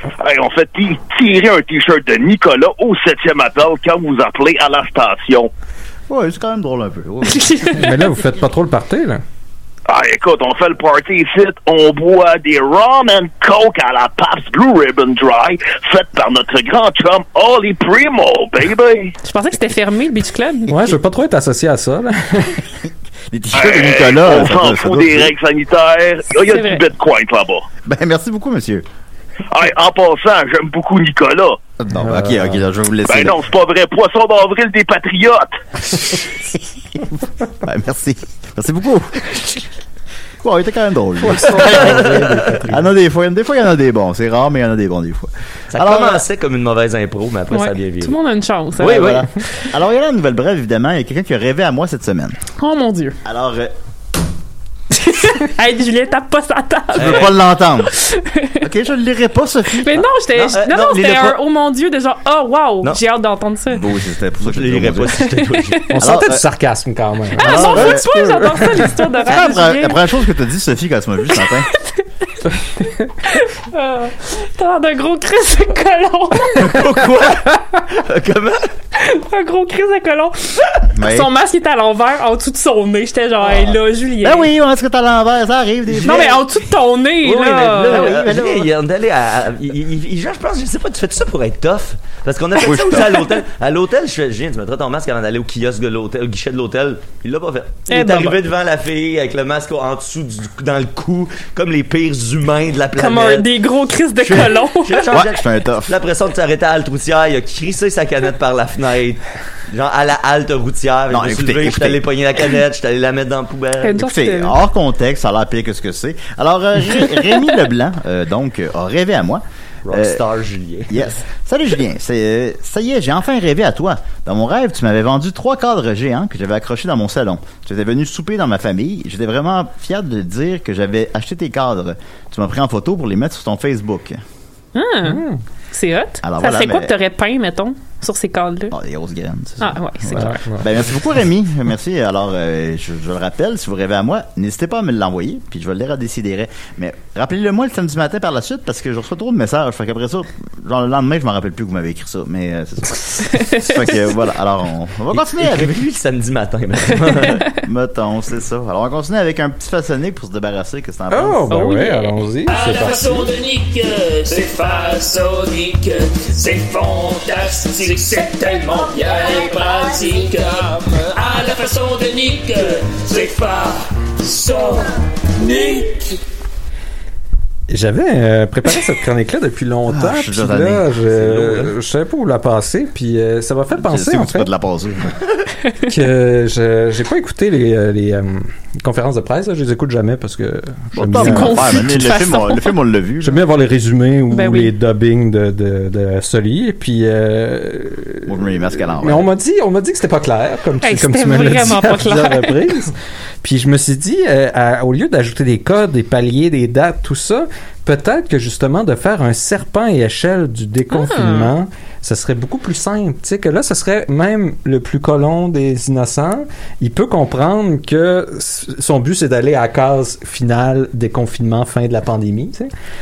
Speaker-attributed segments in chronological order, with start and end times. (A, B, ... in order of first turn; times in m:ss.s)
0:00.2-0:05.5 A
0:06.1-0:07.8 B
0:07.3-0:07.9 C
0:07.7-0:09.2 D
0:09.9-0:19.1 A
0:19.2-0:20.9 C
0:20.7-0:22.6 D
0:23.3-0:25.3 B
0:23.5-0:27.7 A
0:26.4-0:26.8 C
0:27.8-0:28.8 B
0:29.5-0:31.6 A
0:31.8-0:33.4 B
0:32.0-0:32.6 D
0:33.0-0:35.6 A
0:37.6-0:39.7 B
0:40.4-0:46.2 B
0:41.2-0:42.9 D
0:41.5-0:42.6 E
0:45.7-0:48.2 E
0:47.5-0:49.2 C
0:48.8-0:52.4 B
0:48.8-0:49.2 E
0:52.6-0:53.2 C
0:53.2-0:53.7 B
0:54.9-0:58.6 C
0:56.9-0:57.9 B
0:57.0-0:57.4 E
0:58.6-1:00.0 B
0:59.8-1:03.8 C
1:00.3-1:01.4 E
1:03.7-1:05.2 B
1:04.4-1:05.8 E
1:05.2-1:05.9 C
1:05.9-1:09.0 D
1:06.0-1:06.4 B
1:07.4-1:10.0 C
1:07.4-1:08.6 B
1:09.2-1:11.7 B
1:11.4-1:12.0 C
1:13.2-1:16.7 C
1:16.6-1:18.7 E
1:19.0-1:24.5 C
1:20.9-1:21.3 B
1:23.4-1:26.4 B
1:26.0-1:28.1 C
1:27.2-1:43.5 E
1:27.9-1:28.7 B
1:32.6-1:33.2 B
1:37.9-1:38.4 C
1:43.0-1:45.1 C
1:44.2-1:54.0 E
1:45.1-1:45.9 B
1:51.1-1:52.0 B
1:53.8-1:54.6 C
1:54.0-2:00.2 B
1:59.8-2:01.1 E
2:00.9-2:14.2 B
2:14.7-2:18.7 C
2:15.0-2:15.4 D
2:16.2-2:16.9 B
2:18.7-2:35.8 B
2:19.6-2:20.4 C
2:20.1-2:20.7 D
2:33.3-2:33.9 C
2:35.1-2:37.4 E
2:37.6-2:41.5 B
2:41.1-2:43.3 D
2:41.5-2:42.2 C
2:42.4-2:56.2 F
2:57.7-3:04.5 D
2:59.9-3:00.9 B
3:01.1-3:01.7 E
3:03.7-3:05.1 B
3:05.8-3:11.9 D
3:10.9-3:13.4 B
3:11.1-3:12.7 C
3:13.2-3:42.7 D
3:14.3-3:14.7 C
3:18.2-3:19.2 B
3:20.8-3:22.8 C
3:30.9-3:31.5 C